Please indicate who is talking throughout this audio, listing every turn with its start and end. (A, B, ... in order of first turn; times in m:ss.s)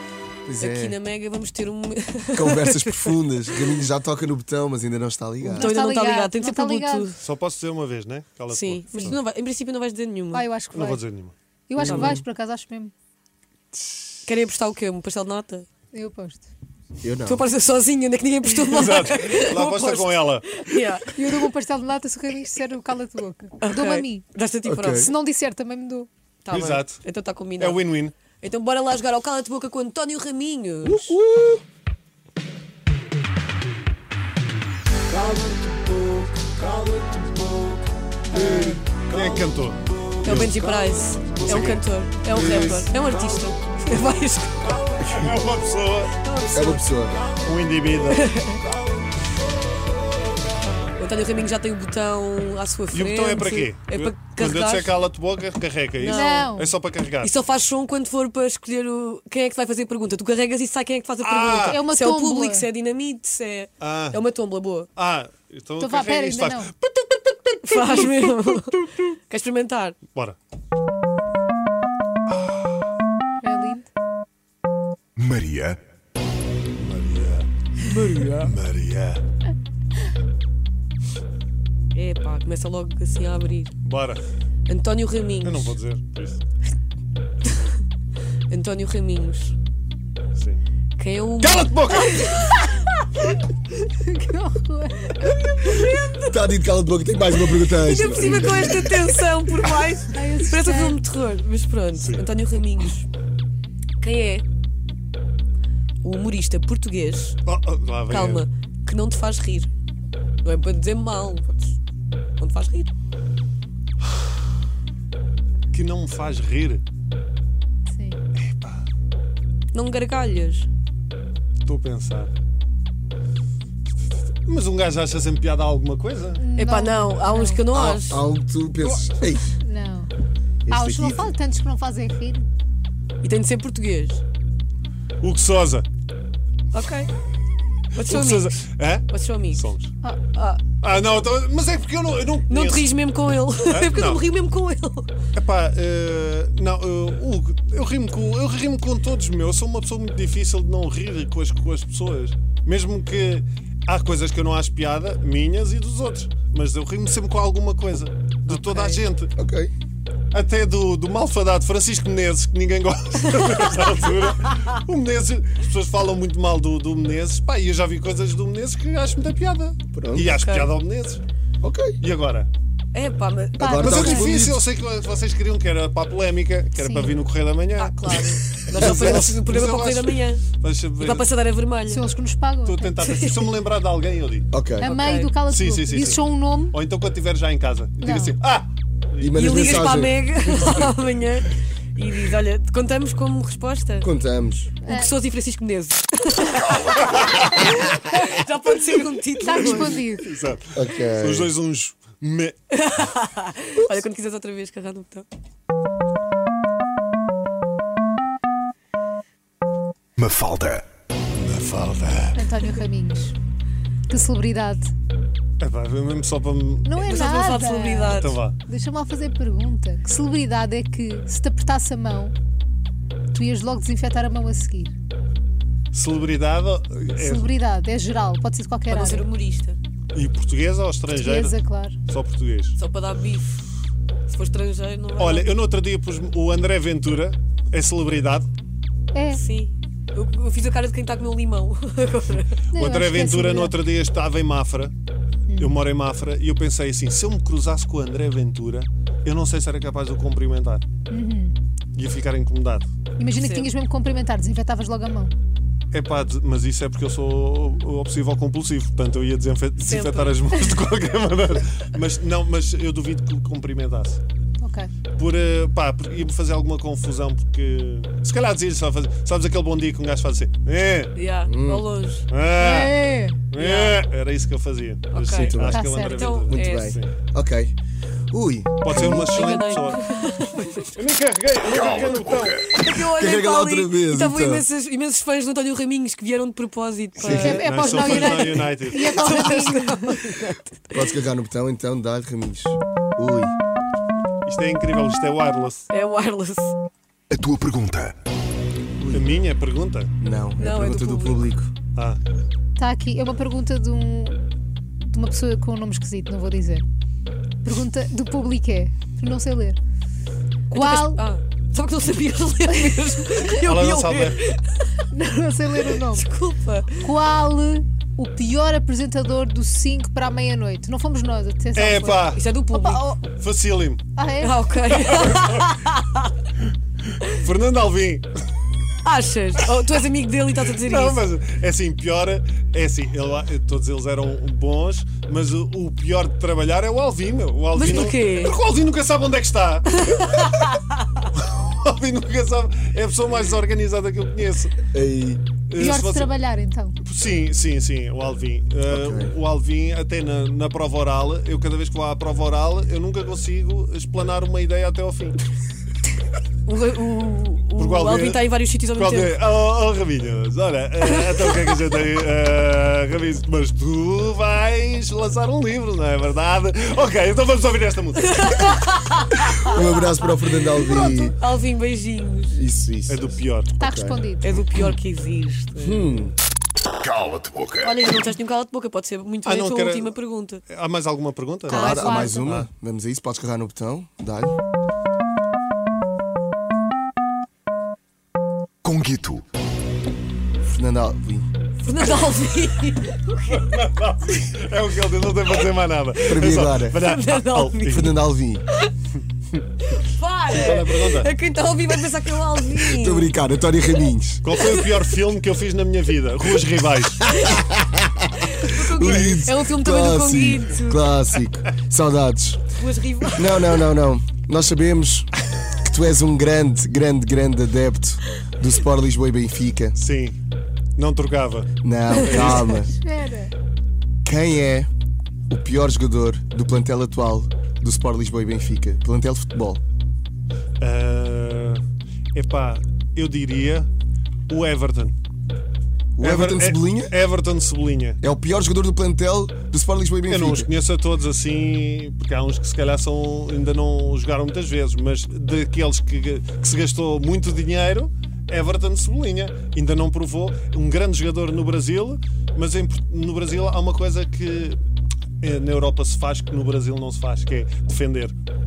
0:00.4-0:01.0 A
0:00.6-0:03.7 B
0:02.3-0:05.7 A
0:05.5-0:07.1 C
0:05.5-0:07.2 B
0:07.2-0:09.2 D
0:08.5-0:10.5 B
0:10.3-0:11.0 C
0:10.7-0:11.3 D
0:11.7-0:12.9 C
0:11.8-0:12.2 A
0:11.8-0:12.1 B
0:14.2-0:15.7 B
0:15.9-0:16.5 C
0:17.0-0:17.4 A
0:17.2-0:21.5 B
0:18.7-0:20.5 D
0:21.1-0:24.2 C
0:23.6-0:25.1 B
0:24.6-0:25.1 A
0:24.9-0:26.1 C
0:26.4-0:27.8 B
0:26.5-0:27.0 D
0:27.6-0:28.1 D
0:28.4-0:31.2 B
0:30.8-0:31.6 A
0:36.3-0:37.6 A
0:38.3-0:38.8 A
0:38.3-0:38.6 C
0:38.9-0:40.5 D
0:40.2-0:44.8 B
0:40.2-0:41.0 A
0:41.4-0:42.9 D
0:45.0-0:46.2 D
0:46.2-0:46.8 B
0:46.5-0:47.2 A
0:47.4-0:48.3 D
0:48.2-0:48.6 B
0:50.9-0:54.9 B
0:52.9-0:57.3 D
0:56.0-0:56.6 B
0:56.0-0:56.7 C
0:57.2-1:04.9 B
1:01.2-1:01.8 D
1:01.6-1:02.7 C
1:03.8-1:04.2 D
1:05.0-1:08.9 D
1:05.8-1:06.7 C
1:07.6-1:10.0 B
1:13.4-1:13.9 C
1:15.2-1:15.8 E
1:16.8-1:17.5 D
1:17.8-1:18.5 B
1:18.4-1:19.2 D
1:21.9-1:23.7 B
1:23.8-1:24.2 D
1:24.7-1:25.8 B
1:25.4-1:26.4 D
1:28.5-1:29.5 B
1:30.4-1:30.6 D
1:31.0-1:32.3 B
1:31.4-1:32.3 D
1:33.7-1:35.3 C
1:35.1-1:36.3 B
1:35.9-1:39.1 A
1:37.5-1:43.1 B
1:40.1-1:41.0 C
1:42.0-1:42.2 D
1:44.0-1:44.4 B
1:46.0-1:47.4 B
1:47.4-1:48.4 D
1:48.1-1:49.7 B
1:50.4-1:51.8 B
1:52.4-1:52.9 B
1:55.7-1:56.8 D
1:57.9-1:58.2 C
1:58.3-1:58.9 D
1:59.7-2:00.7 B
2:01.6-2:02.3 D
2:04.4-2:06.4 D
2:06.4-2:07.6 C
2:06.5-2:08.2 B
2:07.7-2:09.5 A
2:09.6-2:10.1 C
2:10.6-2:11.4 A
2:10.7-2:12.5 C
2:13.2-2:14.2 B
2:15.2-2:15.8 D
2:16.7-2:17.1 B
2:17.9-2:19.6 B
2:18.0-2:19.9 D
2:20.3-2:20.6 B
2:20.8-2:22.9 D
2:22.5-2:25.1 B
2:23.7-2:24.2 D
2:25.3-2:39.3 D
2:38.5-2:39.0 B
2:39.4-2:39.7 A
2:40.3-2:51.2 D
2:49.9-2:50.3 A
2:50.3-2:50.7 B
2:51.6-2:52.0 A
2:52.0-2:52.5 D
2:52.9-2:53.8 B
2:53.6-2:54.3 C
2:53.6-2:54.6 A
2:53.8-3:01.3 D
2:56.7-2:57.2 C
2:57.8-3:00.4 B
2:58.8-2:59.2 A
3:01.0-3:02.0 B
3:01.9-3:03.0 C
3:02.6-3:04.5 D
3:03.0-3:03.4 B
3:04.5-3:04.9 A
3:04.8-3:05.3 B
3:04.8-3:06.8 C
3:05.4-3:10.9 D
3:08.0-3:08.4 C
3:09.2-3:10.2 A
3:09.3-3:14.1 B
3:14.0-3:14.7 A
3:14.8-3:20.1 B
3:14.8-3:15.1 C
3:17.0-3:17.7 D
3:19.4-3:20.2 C
3:19.5-3:22.6 D
3:20.7-3:21.5 A
3:22.7-3:25.2 B
3:30.2-3:30.8 E
3:31.3-3:32.5 D
3:32.3-3:33.4 C
3:34.1-3:34.9 C
3:35.6-3:37.0 D
3:36.8-3:42.3 C
3:37.0-3:38.4 B
3:38.1-3:38.6 D
3:43.3-3:44.9 C
3:45.9-3:47.5 D
3:47.1-3:49.3 C
3:48.9-3:49.8 B
3:50.1-3:51.6 D
3:51.1-3:52.0 C
3:52.1-3:52.8 D
3:52.8-3:53.5 B
3:54.3-3:55.5 B
3:55.2-3:58.5 D
3:59.1-3:59.4 C
3:59.3-4:02.6 B
4:02.7-4:03.7 C
4:02.7-4:04.9 D
4:05.5-4:05.8 C
4:05.6-4:10.8 D
4:11.1-4:11.6 C
4:11.9-4:12.9 D
4:13.2-4:15.3 C
4:13.3-4:13.7 B
4:15.9-4:24.2 D
4:19.9-4:20.4 B
4:24.6-4:24.9 C
4:25.2-4:31.1 D
4:31.1-4:32.2 B
4:31.5-4:31.9 A
4:32.3-4:37.1 D
4:32.6-4:33.4 C
4:33.5-4:34.0 B
4:35.1-4:37.0 B
4:35.4-4:35.9 A
4:35.7-4:36.3 C
4:36.5-4:37.7 A
4:38.3-4:39.6 A
4:38.8-4:40.0 D
4:39.3-4:41.0 B
4:40.9-4:42.6 D
4:41.7-4:42.5 E
4:42.5-4:50.8 B
4:42.9-4:44.6 A
4:47.2-4:47.7 A
4:47.3-4:50.2 C
4:47.4-4:49.6 D
4:50.9-4:53.5 A
4:54.4-4:55.8 D
4:55.9-4:56.7 B
4:57.3-4:58.1 E
4:59.0-4:59.4 A
4:59.1-5:00.1 D
5:00.2-5:01.7 A
5:00.6-5:01.5 B
5:01.9-5:02.2 D
5:02.8-5:04.4 C
5:05.0-5:06.8 C
5:07.6-5:09.8 C
5:10.7-5:14.9 B
5:10.7-5:11.2 C
5:13.6-5:14.4 D
5:15.1-5:16.3 C
5:15.9-5:17.0 B
5:17.0-5:23.2 C
5:21.7-5:22.4 D
5:22.3-5:23.1 B
5:23.3-5:24.0 D
5:24.2-5:25.4 C
5:24.4-5:26.3 B
5:27.3-5:28.3 D
5:29.0-5:31.2 B
5:30.8-5:40.4 D
5:37.7-5:38.6 B
5:40.0-5:40.8 B
5:41.3-5:44.8 D
5:44.9-5:45.4 A
5:45.7-5:46.4 D
5:45.7-5:47.0 C
5:47.0-5:55.4 D
5:48.9-5:49.3 A
5:56.6-5:59.3 B
5:57.8-6:08.7 D
6:01.2-6:01.5 B
6:08.2-6:09.7 B
6:09.6-6:11.3 A
6:10.8-6:12.6 B
6:12.5-6:14.2 A
6:13.1-6:13.7 D
6:13.8-6:14.6 C
6:14.4-6:16.2 B
6:15.8-6:16.4 A
6:17.0-6:17.9 E
6:17.8-6:20.6 B
6:19.4-6:20.1 D
6:20.7-6:22.7 D
6:21.7-6:24.5 A
6:21.7-6:22.4 C
6:21.7-6:22.3 B
6:28.8-6:29.4 E
6:30.6-6:31.5 A
6:31.8-6:33.6 B
6:33.5-6:38.1 D
6:36.2-6:37.0 A
6:37.0-6:38.1 B
6:37.9-6:38.6 A
6:39.9-6:43.3 B
6:40.5-6:41.3 D
6:42.7-6:44.4 A
6:44.4-6:47.3 D
6:44.5-6:44.8 B
6:47.4-6:52.6 A
6:48.4-6:51.0 B
6:49.0-6:49.4 D
6:52.8-6:53.5 B
6:53.4-7:00.0 A
7:00.0-7:00.4 D
7:01.0-7:02.8 D
7:01.8-7:02.9 A
7:02.1-7:03.5 C
7:04.2-7:04.9 A
7:05.5-7:09.8 A
7:10.8-7:11.8 D
7:12.3-7:13.9 D
7:14.5-7:15.1 D
7:16.2-7:17.1 A
7:16.2-7:18.2 D
7:18.2-7:20.7 A
7:20.3-7:34.8 D
7:35.4-7:38.3 D